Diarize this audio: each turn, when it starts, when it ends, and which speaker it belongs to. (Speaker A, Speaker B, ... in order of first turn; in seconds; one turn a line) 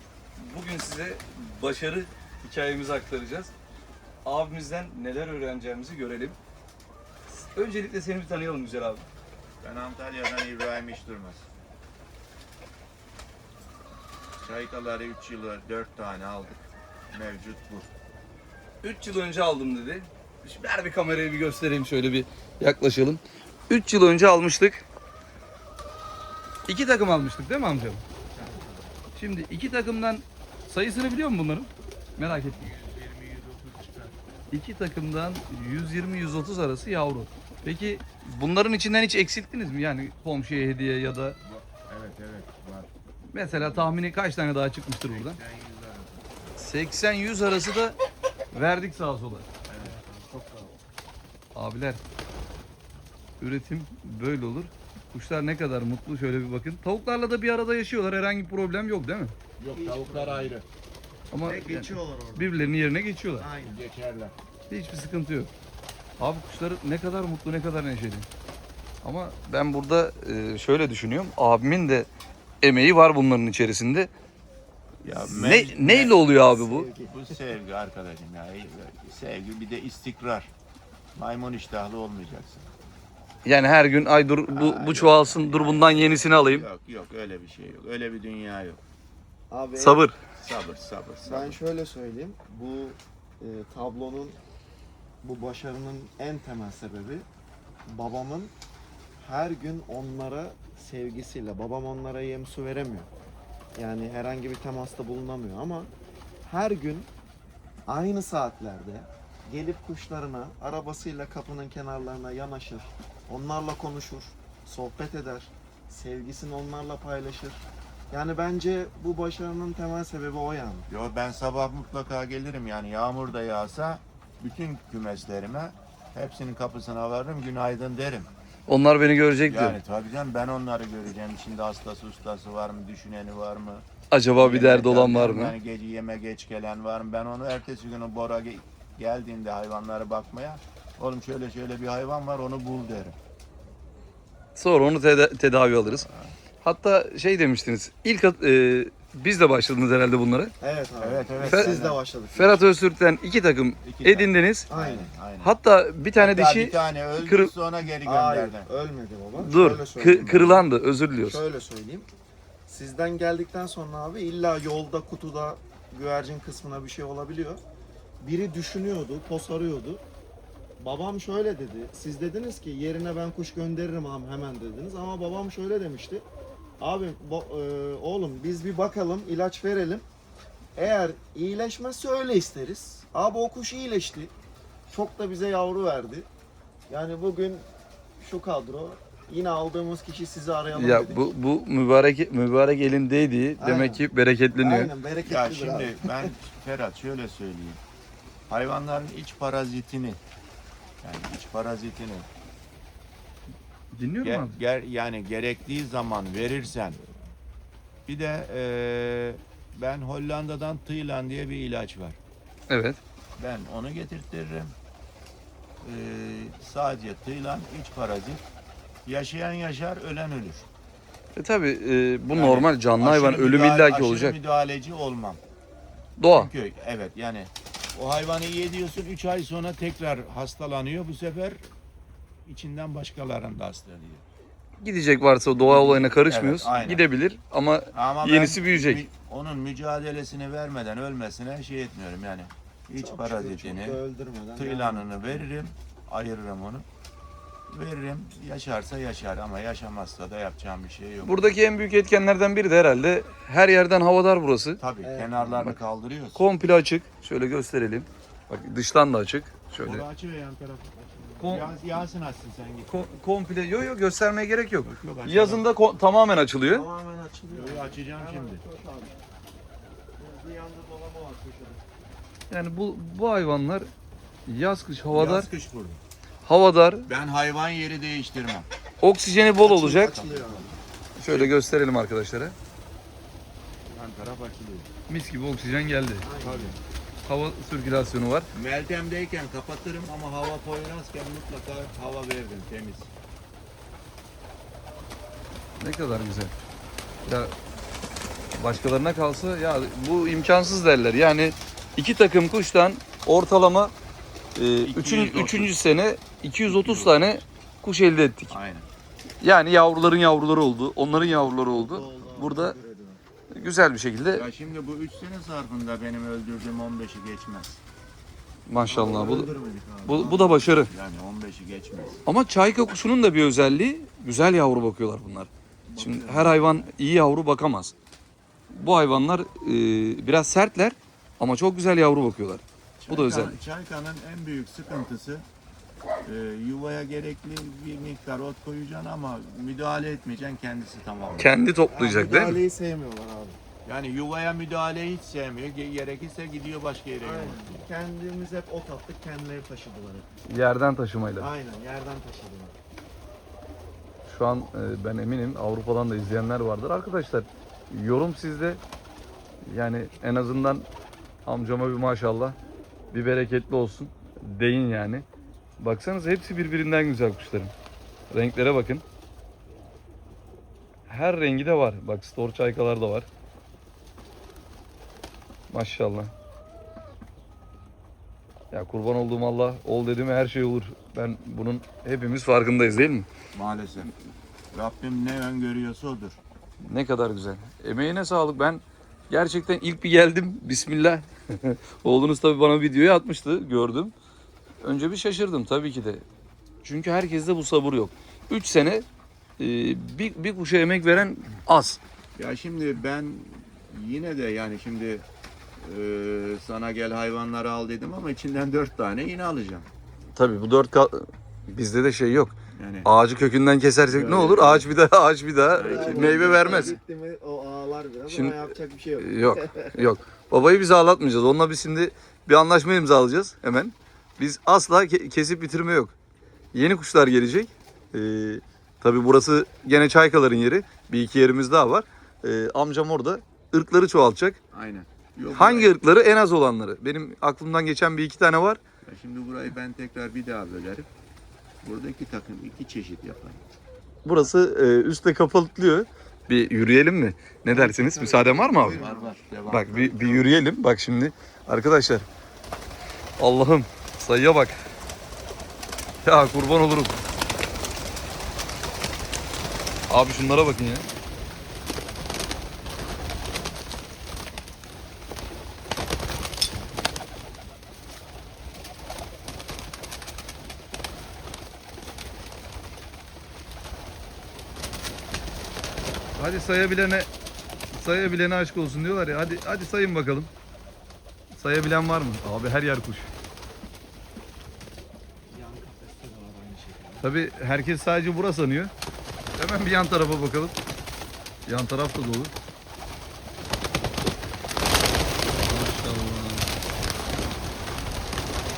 Speaker A: 0.4-3.5
Speaker A: 4.2-6.3
Speaker A: 7.3-9.0
Speaker B: 9.6-11.5
Speaker B: 14.4-16.6
Speaker B: 17.1-17.9
Speaker A: 18.8-24.8
Speaker A: 26.7-28.0
Speaker C: 28.3-28.9
Speaker A: 29.1-32.7
Speaker B: 32.2-34.2
Speaker A: 34.5-41.4
Speaker B: 41.4-42.9
Speaker A: 43.3-45.4
Speaker B: 43.5-43.8
Speaker B: 45.0-46.3
Speaker A: 46.6-48.0
Speaker A: 48.5-49.5
Speaker B: 49.7-49.9
Speaker C: 49.8-50.7
Speaker A: 51.5-52.0
Speaker A: 53.4-59.3
Speaker B: 59.6-60.6
Speaker C: 59.6-60.5
Speaker A: 61.3-63.5
Speaker C: 61.4-62.7
Speaker C: 63.4-63.8
Speaker B: 63.6-64.3
Speaker A: 64.7-65.5
Speaker A: 66.2-68.3
Speaker A: 69.0-72.1
Speaker A: 72.6-74.1
Speaker B: 75.0-76.2
Speaker A: 75.2-76.9
Speaker C: 76.5-77.3
Speaker B: 76.8-80.5
Speaker B: 81.1-82.7
Speaker A: 83.4-86.7
Speaker B: 84.5-88.8
Speaker C: 89.5-90.1
Speaker A: 89.7-90.1
Speaker B: 90.3-91.6
Speaker C: 91.2-94.4
Speaker C: 95.2-97.2
Speaker C: 97.8-98.5
Speaker C: 99.2-103.1
Speaker C: 103.8-105.9
Speaker C: 106.4-107.1
Speaker C: 107.9-120.9
Speaker B: 120.9-128.3
Speaker A: 128.7-129.8
Speaker B: 129.4-133.8
Speaker A: 134.1-135.5
Speaker B: 134.4-143.2
Speaker A: 144.6-146.1
Speaker B: 146.0-146.3
Speaker A: 146.6-150.5
Speaker C: 150.6-152.7
Speaker B: 151.0-152.0
Speaker A: 151.4-151.7
Speaker A: 152.3-154.7
Speaker B: 153.8-155.5
Speaker C: 154.7-155.1
Speaker A: 155.4-157.5
Speaker B: 156.2-158.7
Speaker C: 158.0-160.7
Speaker A: 159.3-161.4
Speaker C: 161.2-162.1
Speaker C: 162.7-167.6
Speaker C: 168.2-170.0
Speaker C: 170.8-176.2
Speaker C: 176.8-180.0
Speaker C: 180.8-184.3
Speaker C: 184.9-186.3
Speaker C: 186.9-187.7
Speaker C: 188.2-191.3
Speaker A: 190.7-194.9
Speaker C: 193.6-196.3
Speaker B: 195.2-197.8
Speaker B: 198.5-200.2
Speaker B: 201.0-202.3
Speaker A: 203.9-204.6
Speaker B: 204.2-207.0
Speaker B: 208.1-212.2
Speaker A: 212.7-213.0
Speaker B: 213.4-214.7
Speaker B: 215.8-218.4
Speaker B: 219.1-220.7
Speaker A: 221.3-224.4
Speaker B: 222.3-225.4
Speaker A: 226.2-226.5
Speaker B: 226.3-231.6
Speaker B: 232.4-234.2
Speaker A: 234.8-239.0
Speaker B: 235.6-237.1
Speaker B: 237.9-244.0
Speaker C: 242.9-245.4
Speaker B: 244.5-246.9
Speaker B: 247.7-251.6
Speaker A: 251.2-254.8
Speaker B: 254.8-256.4
Speaker C: 255.0-255.7
Speaker A: 256.3-260.0
Speaker B: 259.8-262.9
Speaker C: 261.0-261.7
Speaker A: 261.4-261.7
Speaker A: 262.9-266.9
Speaker B: 264.8-265.6
Speaker C: 266.6-269.2
Speaker B: 267.5-268.6
Speaker C: 270.2-271.8
Speaker A: 272.5-273.9
Speaker A: 274.5-275.5
Speaker B: 275.1-276.0
Speaker A: 276.4-277.1
Speaker B: 277.1-278.7
Speaker A: 279.0-280.1
Speaker C: 279.6-280.8
Speaker B: 279.9-281.5
Speaker A: 281.2-282.6
Speaker B: 283.8-284.9
Speaker A: 285.1-286.2
Speaker C: 286.2-286.8
Speaker B: 286.4-286.8
Speaker A: 287.2-288.5
Speaker B: 288.5-293.1
Speaker A: 295.8-296.5
Speaker A: 297.2-297.5
Speaker A: 298.6-303.9
Speaker A: 304.6-308.5
Speaker B: 304.8-305.7
Speaker B: 306.7-307.4
Speaker B: 308.5-308.9
Speaker A: 309.4-312.7
Speaker C: 311.1-313.2
Speaker A: 313.5-314.4
Speaker B: 314.3-317.8
Speaker A: 318.7-319.5
Speaker C: 318.9-320.6
Speaker A: 320.0-320.9
Speaker B: 320.1-322.2
Speaker A: 322.2-327.9
Speaker B: 325.9-326.9
Speaker A: 328.7-333.5
Speaker B: 333.0-335.5
Speaker B: 336.2-341.5
Speaker A: 341.4-342.6
Speaker C: 341.9-343.6
Speaker B: 343.9-347.9
Speaker C: 347.2-350.3
Speaker A: 350.5-351.5
Speaker C: 351.4-352.7
Speaker A: 354.3-358.8
Speaker A: 359.7-360.9
Speaker A: 361.4-362.6
Speaker A: 363.1-365.2
Speaker A: 365.8-367.7
Speaker A: 368.3-369.0
Speaker A: 371.1-373.3
Speaker A: 375.7-376.3
Speaker A: 378.7-383.3
Speaker B: 383.5-384.1
Speaker B: 384.7-386.4
Speaker A: 386.8-394.1
Speaker A: 394.8-396.2
Speaker A: 396.8-399.0
Speaker A: 399.6-402.0
Speaker B: 402.4-405.3
Speaker B: 405.8-409.9
Speaker A: 410.4-416.9
Speaker B: 412.7-413.1
Speaker B: 414.1-414.9
Speaker B: 415.7-417.0
Speaker C: 415.7-420.1
Speaker A: 418.3-426.1
Speaker A: 426.7-434.6
Speaker B: 434.7-436.0
Speaker A: 435.5-438.8
Speaker B: 439.0-441.1
Speaker B: 441.8-443.6
Speaker A: 444.2-449.0
Speaker C: 447.7-449.3
Speaker B: 448.7-450.6
Speaker A: 449.7-452.2
Speaker A: 453.4-454.8
Speaker A: 456.2-457.2
Speaker A: 460.1-461.0
Speaker A: 476.4-477.3
Speaker A: 477.9-480.5
Speaker A: 481.6-483.3
Speaker C: 485.5-487.3
Speaker A: 487.2-488.9
Speaker A: 489.6-490.8
Speaker A: 491.6-492.5
Speaker A: 495.6-496.7